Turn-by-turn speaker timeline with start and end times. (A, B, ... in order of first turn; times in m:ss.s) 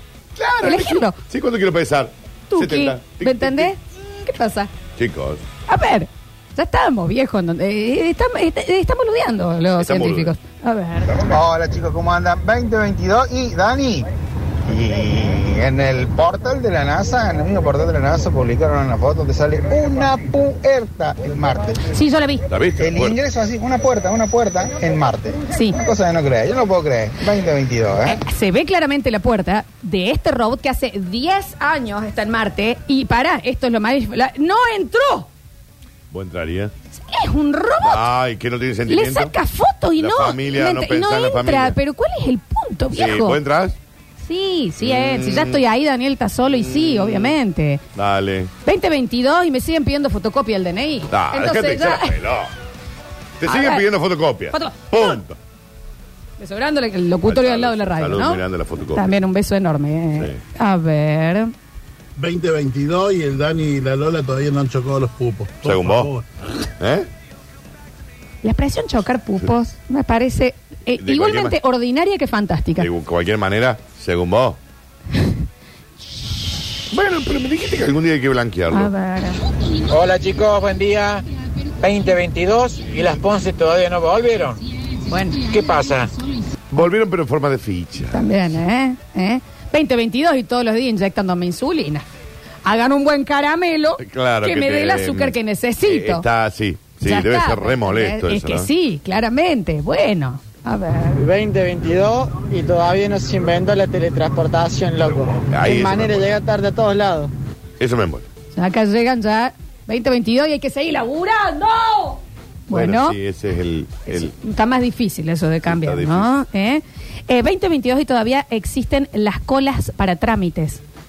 0:00.3-0:03.7 A
0:00.6-0:01.2 B
0:02.5-0:04.7 B
0:05.0-0:05.4 A
0:05.7-0:11.1 B
0:09.8-0:10.3 A
0:11.2-0:14.1 C
0:14.7-0:21.9 C
0:21.9-0:22.4 B
0:22.5-0:23.2 A
0:22.8-0:28.2 C
0:25.5-0:25.8 B
0:28.0-0:35.3 B
0:36.1-0:36.7 A
0:36.9-0:38.0 B
0:37.8-0:39.3 A
0:38.9-0:43.4 B
0:40.0-0:41.8 A
0:42.9-0:43.8 A
0:44.2-0:47.8 B
0:44.8-0:45.6 A
0:46.7-0:47.3 A
0:47.9-0:48.5 A
0:48.6-0:52.2 B
0:51.1-0:52.5 A
0:53.4-0:55.4 A
0:53.4-0:53.8 B
0:54.5-0:55.2 B
0:56.4-1:01.5 B
0:57.2-0:59.1 A
1:02.2-1:06.2 D
1:05.6-1:06.1 A
1:06.8-1:07.1 A
1:08.4-1:12.9 B
1:11.0-1:11.6 A
1:12.8-1:14.6 A
1:16.9-1:18.9 A
1:18.7-1:19.4 B
1:20.0-1:21.2 E
1:21.8-1:24.5 E
1:25.1-1:25.4 B
1:25.5-1:26.1 E
1:26.7-1:28.3 A
1:28.1-1:32.0 B
1:32.6-1:36.2 B
1:34.0-1:38.7 A
1:37.0-1:41.2 B
1:41.3-1:43.4 F
1:44.1-1:45.0 F
1:45.5-1:46.4 A
1:46.7-1:47.3 F
1:47.8-1:48.2 A
1:48.5-1:53.2 B
1:52.7-1:54.3 A
1:54.1-2:00.8 B
1:55.6-1:56.3 A